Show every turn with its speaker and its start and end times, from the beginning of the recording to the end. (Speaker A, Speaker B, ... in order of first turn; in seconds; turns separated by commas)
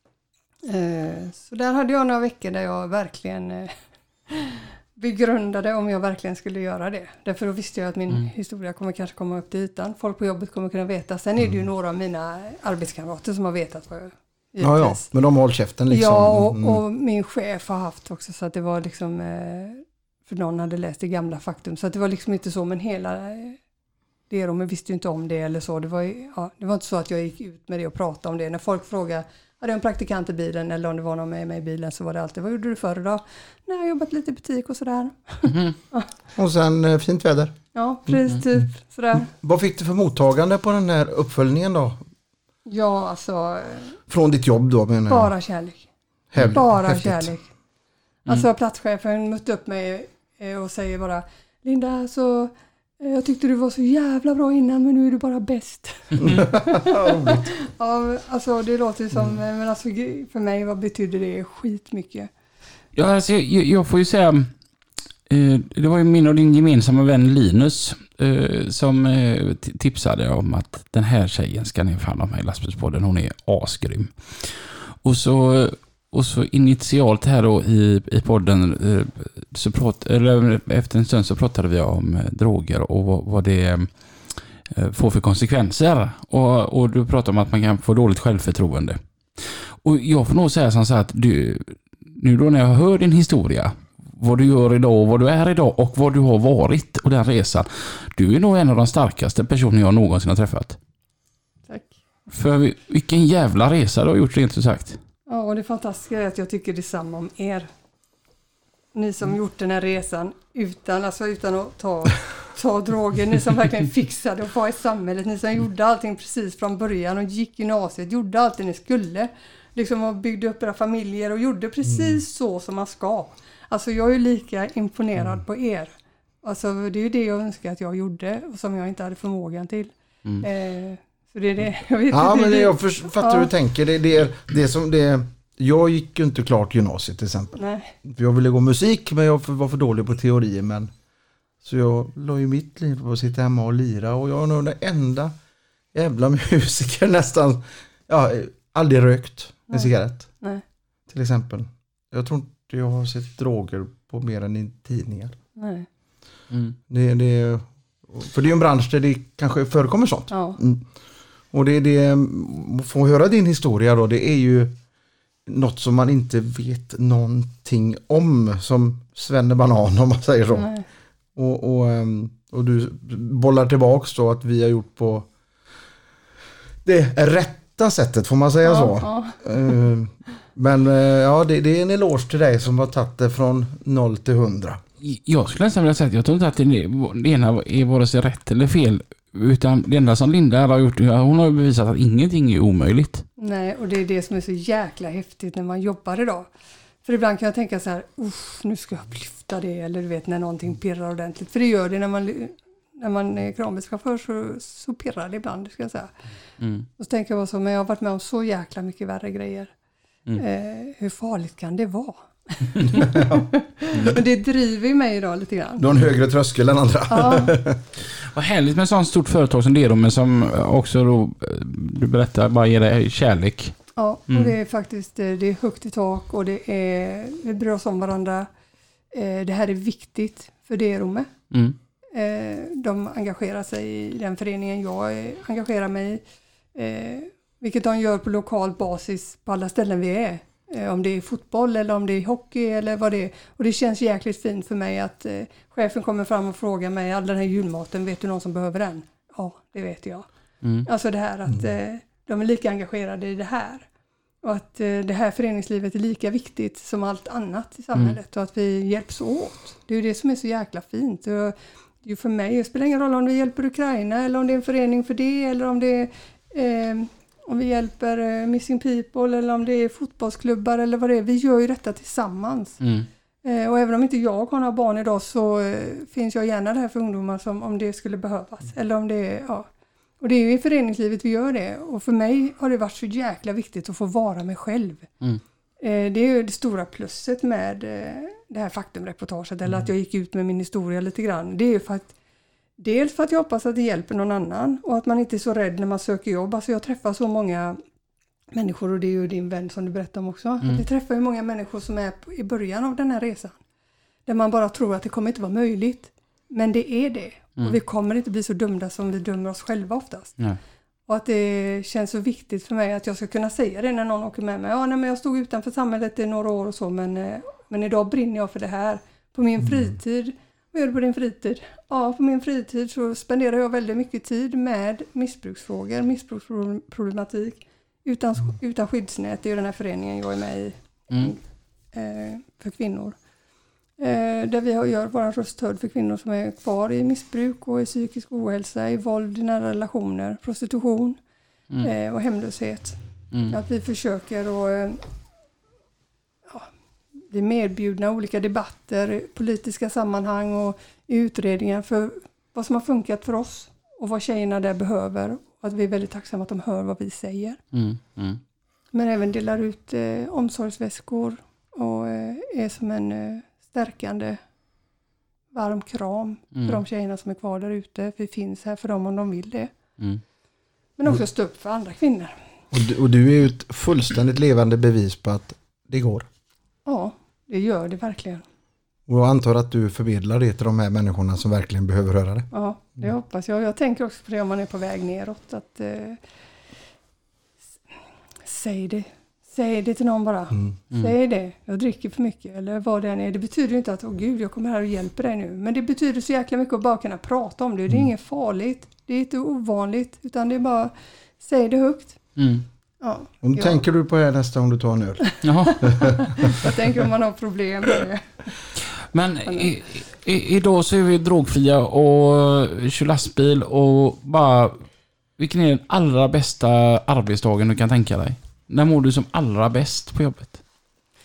Speaker A: 0.6-15.1, Speaker B: 14.6-16.8, Speaker A: 15.9-23.6, Speaker A: 24.3-36.1, Speaker C: 35.5-35.7, Speaker B: 36.4-37.6, Speaker A: 37.7-39.3, Speaker B: 39.3-42.0, Speaker A: 42.6-44.0, Speaker B: 44.1-45.3, Speaker A: 45.1-45.9, Speaker B: 46.3-47.3, Speaker A: 46.4-47.5, Speaker A: 48.2-62.3, Speaker B: 56.2-57.4, Speaker C: 63.0-64.5, Speaker C: 65.3-100.8, Speaker A: 101.7-102.0, Speaker C: 102.3-105.0, Speaker A: 105.3-107.7, Speaker A: 108.9-133.5, Speaker B: 121.9-122.1, Speaker B: 132.1-140.9, Speaker A: 137.6-137.9, Speaker B: 141.6-145.3, Speaker B: 145.9-150.3, Speaker B: 151.1-155.4, Speaker A: 155.6-155.9, Speaker C: 156.5-156.8, Speaker B: 156.9-160.8, Speaker A: 160.3-160.6, Speaker B: 161.5-164.7, Speaker B: 165.4-170.7, Speaker A: 170.5-170.8, Speaker B: 171.3-175.3, Speaker B: 176.8-184.8, Speaker A: 178.6-179.4, Speaker C: 185.0-193.2, Speaker A: 193.4-196.5, Speaker A: 197.0-206.2, Speaker C: 206.6-206.9, Speaker A: 207.0-209.7, Speaker A: 210.3-215.9, Speaker B: 213.0-213.4, Speaker B: 215.8-217.8, Speaker A: 217.1-217.6, Speaker C: 218.3-223.8, Speaker A: 223.9-228.5, Speaker C: 224.3-224.5, Speaker A: 229.1-231.3, Speaker C: 231.5-231.8, Speaker A: 232.1-236.2, Speaker A: 236.7-250.3, Speaker C: 250.6-250.9, Speaker A: 250.8-253.9, Speaker A: 254.4-272.8, Speaker C: 272.8-273.1, Speaker A: 273.4-279.7, Speaker A: 280.2-285.1, Speaker A: 285.8-292.1, Speaker A: 292.8-297.8, Speaker A: 298.5-303.6, Speaker A: 304.2-310.4, Speaker A: 311.1-331.4, Speaker A: 331.9-333.2, Speaker A: 334.0-341.2, Speaker A: 341.8-343.0, Speaker A: 343.5-345.0, Speaker A: 347.2-357.6, Speaker C: 357.7-358.4, Speaker A: 358.9-364.4, Speaker A: 365.5-369.7, Speaker C: 366.5-366.8, Speaker A: 371.0-372.4, Speaker B: 372.7-376.3, Speaker A: 376.9-378.4, Speaker B: 379.1-382.5, Speaker A: 382.5-386.2, Speaker A: 388.4-402.2, Speaker C: 402.4-402.6, Speaker A: 403.0-403.8, Speaker B: 403.4-406.7, Speaker C: 405.4-405.8, Speaker A: 405.6-408.4, Speaker C: 409.1-414.8, Speaker A: 409.4-409.7, Speaker C: 415.4-420.6